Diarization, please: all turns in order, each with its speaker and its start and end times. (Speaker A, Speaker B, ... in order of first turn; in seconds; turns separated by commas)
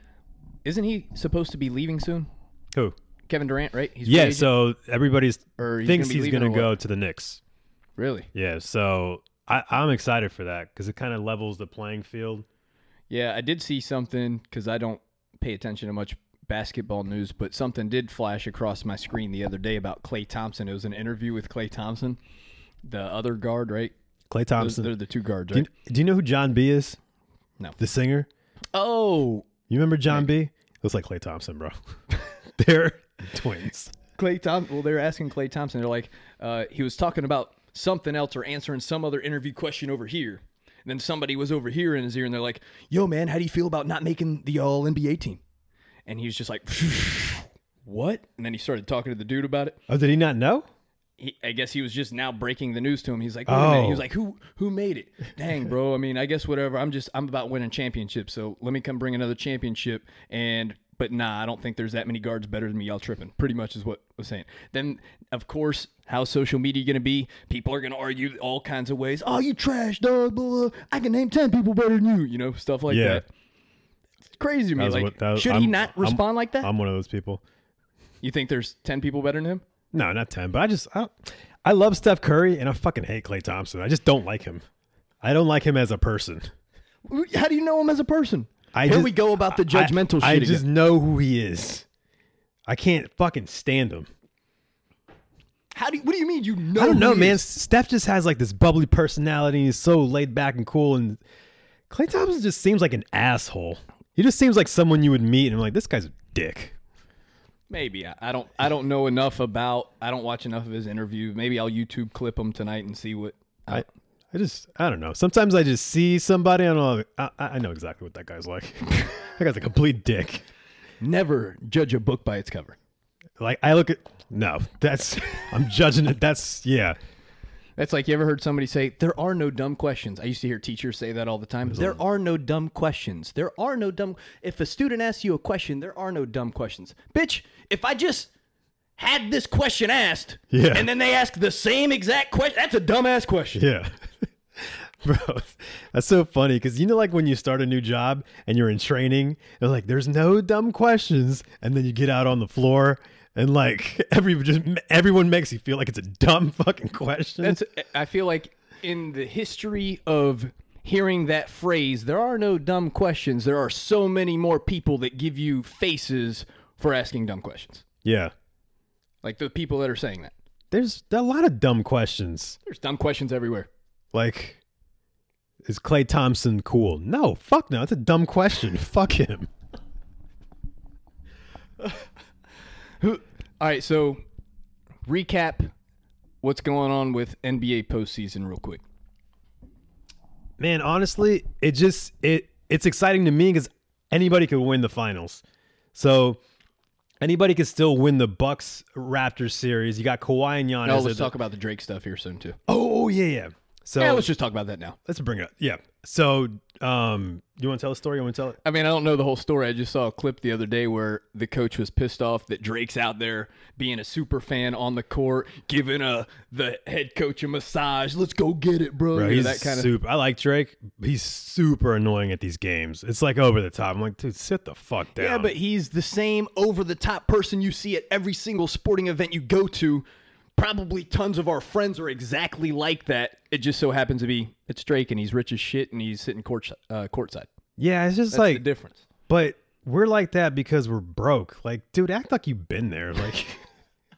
Speaker A: 0.6-2.3, Speaker A: 3.3-4.5, Speaker B: 4.0-7.4, Speaker A: 5.6-6.7, Speaker A: 8.0-8.3, Speaker B: 8.3-12.4, Speaker A: 13.1-22.2, Speaker A: 22.8-23.9, Speaker B: 24.3-24.9, Speaker A: 24.6-25.7, Speaker B: 25.5-27.0, Speaker B: 27.8-28.3, Speaker A: 28.7-29.5, Speaker B: 29.7-31.7, Speaker B: 32.5-33.9, Speaker A: 34.2-45.4, Speaker A: 46.0-49.8, Speaker B: 49.9-50.6, Speaker A: 51.2-73.2, Speaker B: 53.5-54.0, Speaker B: 72.9-73.2, Speaker A: 74.3-76.7, Speaker B: 74.8-77.4, Speaker A: 78.2-79.6, Speaker B: 79.9-84.6, Speaker B: 85.2-86.5, Speaker A: 87.0-90.6, Speaker B: 88.7-91.8, Speaker B: 92.7-94.1, Speaker A: 95.7-97.4, Speaker B: 96.7-101.2, Speaker B: 101.9-106.7, Speaker A: 107.7-113.8, Speaker B: 113.7-120.4, Speaker A: 121.0-122.8, Speaker B: 123.4-127.0, Speaker A: 127.8-138.3, Speaker B: 131.7-131.9, Speaker A: 139.0-143.6, Speaker B: 140.5-140.9, Speaker B: 143.5-143.9, Speaker B: 144.6-157.6, Speaker A: 157.4-167.8, Speaker B: 168.0-168.3, Speaker A: 169.2-170.3, Speaker B: 170.7-172.6, Speaker A: 172.7-173.7, Speaker B: 174.1-174.6, Speaker B: 175.6-179.5, Speaker A: 183.0-184.2, Speaker A: 185.0-185.7, Speaker A: 186.4-188.8, Speaker B: 190.6-195.4, Speaker B: 195.9-196.4, Speaker B: 197.2-201.3, Speaker A: 200.8-202.6, Speaker B: 202.7-204.3, Speaker A: 204.0-205.0, Speaker B: 205.1-208.6, Speaker A: 208.6-219.9, Speaker B: 219.1-225.5, Speaker A: 225.1-230.0, Speaker A: 230.6-237.5, Speaker B: 237.8-238.6, Speaker A: 238.3-239.0, Speaker B: 239.3-243.6